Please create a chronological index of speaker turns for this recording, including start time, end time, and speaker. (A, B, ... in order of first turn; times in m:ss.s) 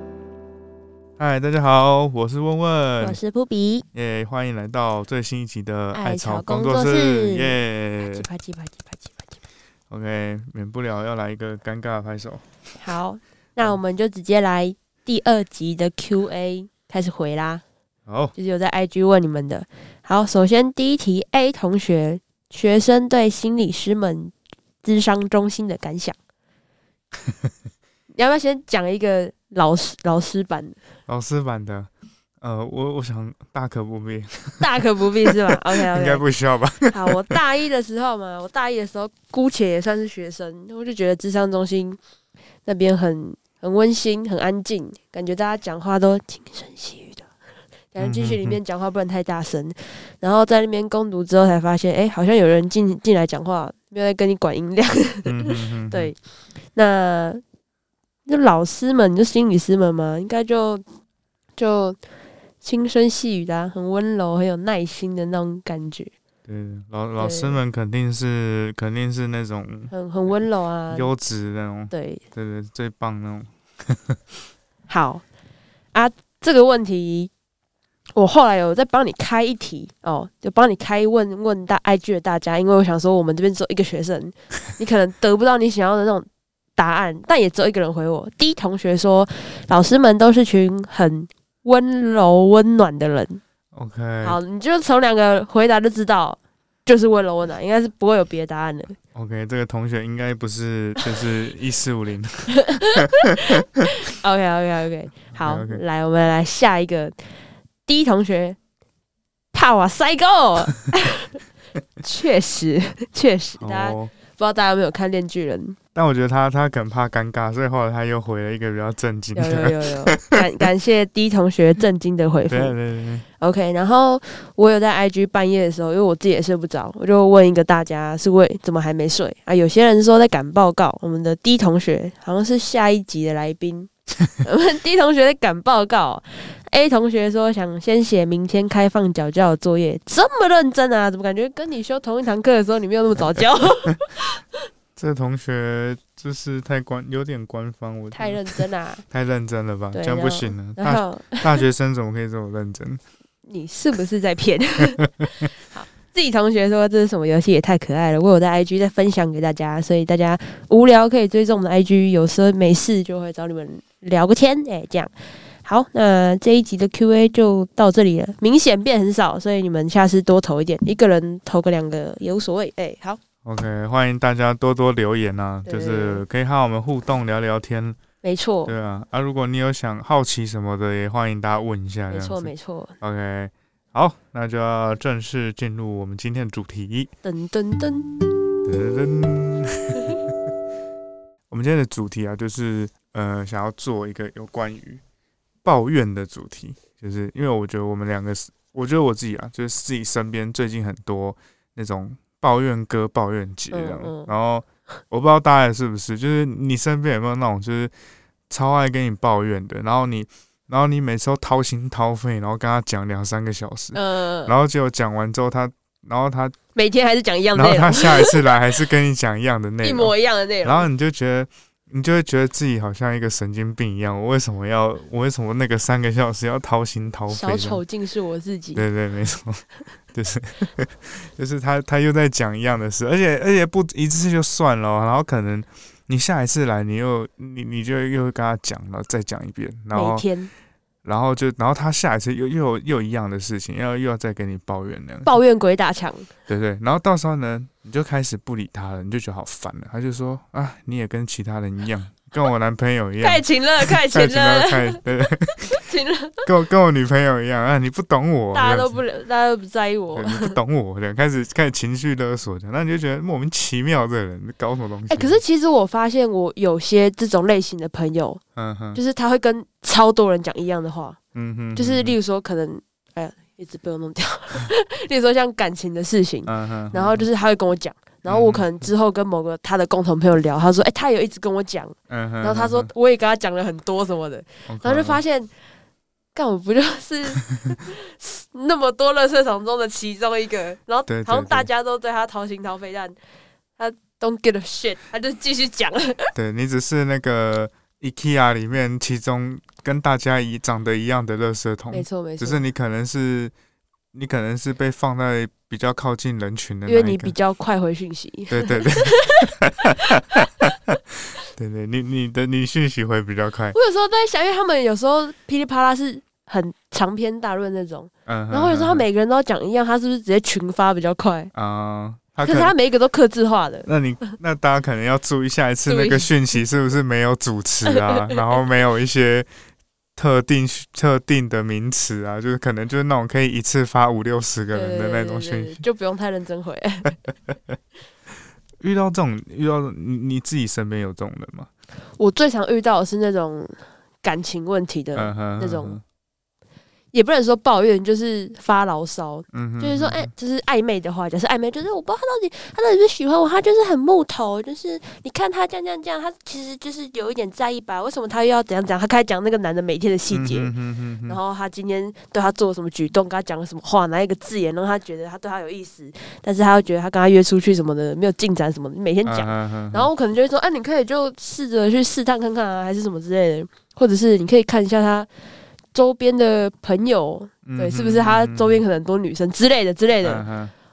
0:01.2-0:03.2 A
0:03.0-0:03.9 B
0:03.9-0:08.2 A
0:05.9-0:07.6 B
0:08.1-0:09.4 B
0:09.9-0:12.4 A
0:12.8-0:17.6 B
0:18.1-0:18.3 A
0:18.4-0:26.2 B
0:27.2-0:27.5 A
0:28.2-0:30.8 B
0:31.1-0:31.9 A
0:32.4-0:34.7 A
0:34.6-0:36.2 B
0:35.2-0:37.2 A
0:36.9-0:42.0 B
0:42.7-0:47.3 B
0:47.9-0:56.2 B
0:48.0-0:48.6 A
0:55.3-0:56.1 A
0:56.8-0:57.4 B
0:58.3-1:00.8 B
1:01.6-1:02.0 B
1:02.6-1:06.1 B
1:06.5-1:09.9 A
1:07.2-1:07.6 B
1:09.9-1:11.1 B
1:10.9-1:14.2 A
1:11.9-1:12.2 B
1:14.9-1:15.2 B
1:15.9-1:17.3 B
1:18.2-1:33.4 B
1:33.7-1:34.4 A
1:34.2-1:39.0 B
1:39.2-1:43.5 A
1:42.6-1:47.2 B
1:45.4-1:45.8 A
1:47.9-1:48.6 B
1:49.5-1:51.4 B
1:52.0-1:55.8 B
1:53.6-1:54.1 A
1:56.0-2:00.4 A
1:59.4-2:02.7 B
2:02.5-2:03.2 A
2:03.4-2:24.4 B
2:25.0-2:28.6 A
2:28.1-2:29.0 B
2:29.1-2:33.0 A
2:29.9-2:31.6 B
2:33.5-2:45.1 B
2:45.6-2:53.2 B
2:53.4-2:58.0 A
2:55.7-2:56.2 B
2:58.2-2:58.7 B
2:58.7-3:07.1 A
3:02.1-3:02.9 B
3:07.2-3:08.1 B
3:08.6-3:10.3 A
3:11.5-3:15.0 A
3:15.6-3:27.9 A
3:23.7-3:24.3 B
3:28.5-3:36.6 A
3:33.9-3:34.5 B
3:36.8-3:38.4 B
3:37.6-3:47.8 A
3:39.8-3:40.9 B
3:47.3-3:48.8 B
3:48.8-4:00.2 A
3:59.9-4:00.5 B
4:01.0-4:05.3 A
4:05.2-4:06.3 B
4:06.5-4:15.8 A
4:13.2-4:15.0 B
4:15.6-4:16.5 B
4:16.4-4:19.0 A
4:18.5-4:20.6 B
4:20.1-4:25.4 A
4:25.1-4:28.4 B
4:28.6-4:29.0 A
4:28.9-4:31.2 B
4:31.4-4:32.2 A
4:31.8-4:45.5 B
4:36.5-4:37.3 A
4:38.3-4:38.7 A
4:42.1-4:42.9 A
4:44.7-4:45.2 A
4:46.4-4:53.2 B
4:51.1-4:51.7 A
4:53.8-4:56.3 B
4:56.4-5:03.5 A
5:01.9-5:02.6 B
5:04.1-5:07.3 A
5:06.9-5:09.5 B
5:08.5-5:13.8 A
5:10.0-5:10.4 B
5:13.7-5:21.5 B
5:18.3-5:19.0 A
5:21.5-5:22.7 A
5:22.4-5:24.3 B
5:23.9-5:29.5 A
5:25.9-5:26.3 B
5:27.9-5:28.4 B
5:30.2-5:35.8 A
5:34.7-5:37.2 B
5:38.8-5:41.7 A
5:42.2-5:46.0 B
5:45.2-5:46.0 A
5:47.1-6:00.7 B
5:49.5-5:50.3 A
6:00.3-6:01.4 A
6:01.3-6:15.3 B
6:09.3-6:10.1 A
6:15.9-6:20.4 B
6:17.7-6:18.8 A
6:20.2-6:20.7 A